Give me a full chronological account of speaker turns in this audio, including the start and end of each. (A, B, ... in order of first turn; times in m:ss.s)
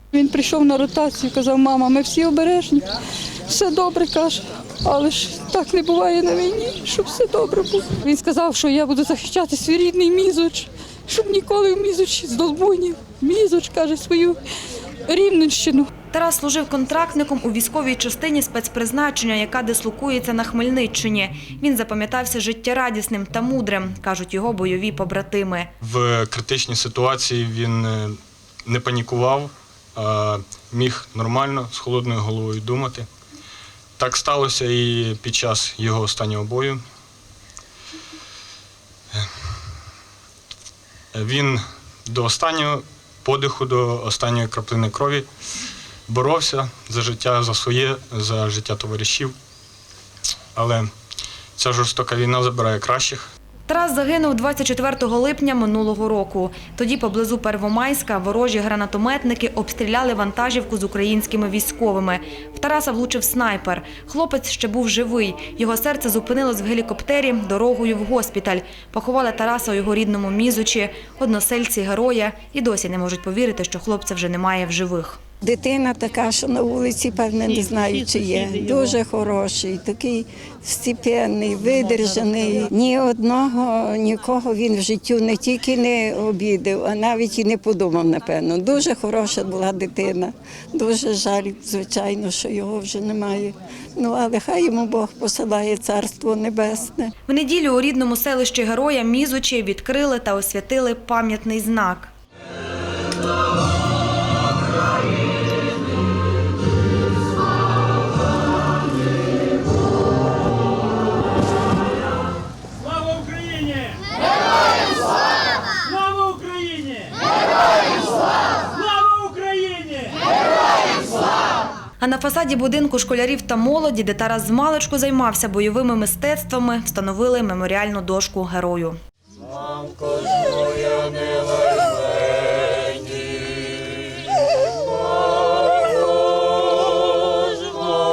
0:00.1-0:02.9 A
0:03.5-0:14.4 A
0:15.1-0:15.9 A
0:16.1-0:25.7 B
0:25.8-0:33.1 C
0:34.0-0:36.8 C
0:41.1-0:45.3 C
0:46.1-0:49.4 C
0:50.6-0:50.9 C
0:51.6-0:53.3 C
0:53.7-1:15.2 B
1:15.4-1:37.1 D
1:37.3-1:42.1 B
2:02.0-2:09.0 B